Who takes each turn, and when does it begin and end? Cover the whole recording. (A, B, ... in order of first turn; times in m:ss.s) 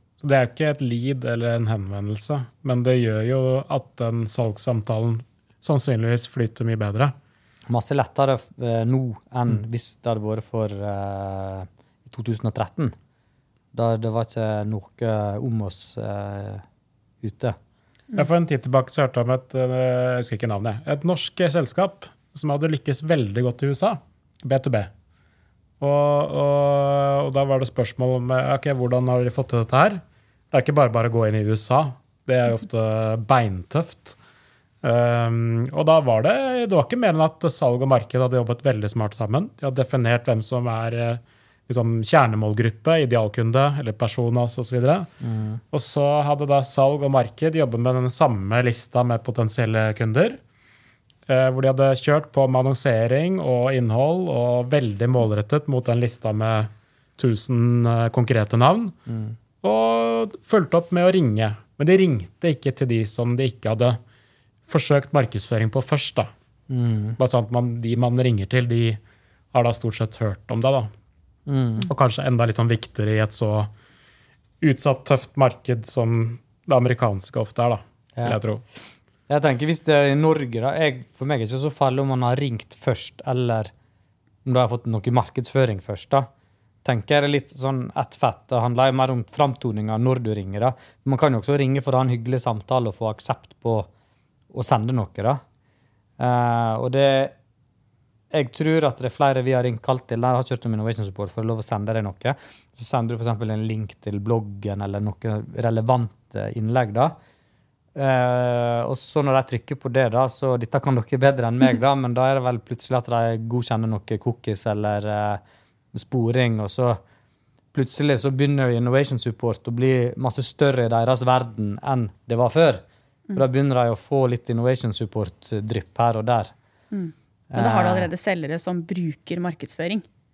0:00.2-0:07.1 A
0:07.7-0:12.9 B
0:13.7-0:16.6 B
0:17.2-0:17.6 B
0:18.2-0:24.9 A
0:25.8-0:34.2 A
0:34.8-0:45.1 A
0:45.2-0:45.6 B
0:45.7-0:50.4 A
0:51.3-0:58.9 A
0:59.1-0:59.4 B
0:59.6-1:04.0 A
1:04.7-1:06.3 A
1:06.7-1:07.2 B
1:07.2-1:09.0 A
1:09.5-1:10.9 A
1:11.5-1:11.9 B
1:11.9-1:13.7 A
1:14.6-1:18.6 A
1:19.3-1:23.7 B
1:24.4-1:26.3 B
1:26.8-1:33.9 B
1:34.5-1:35.4 B
1:36.2-1:37.3 B
1:38.3-1:47.1 B
1:47.9-1:55.4 B
1:55.9-1:57.0 B
1:57.7-2:02.8 B
2:03.3-2:06.5 B
2:06.9-2:10.0 C
2:07.5-2:08.1 B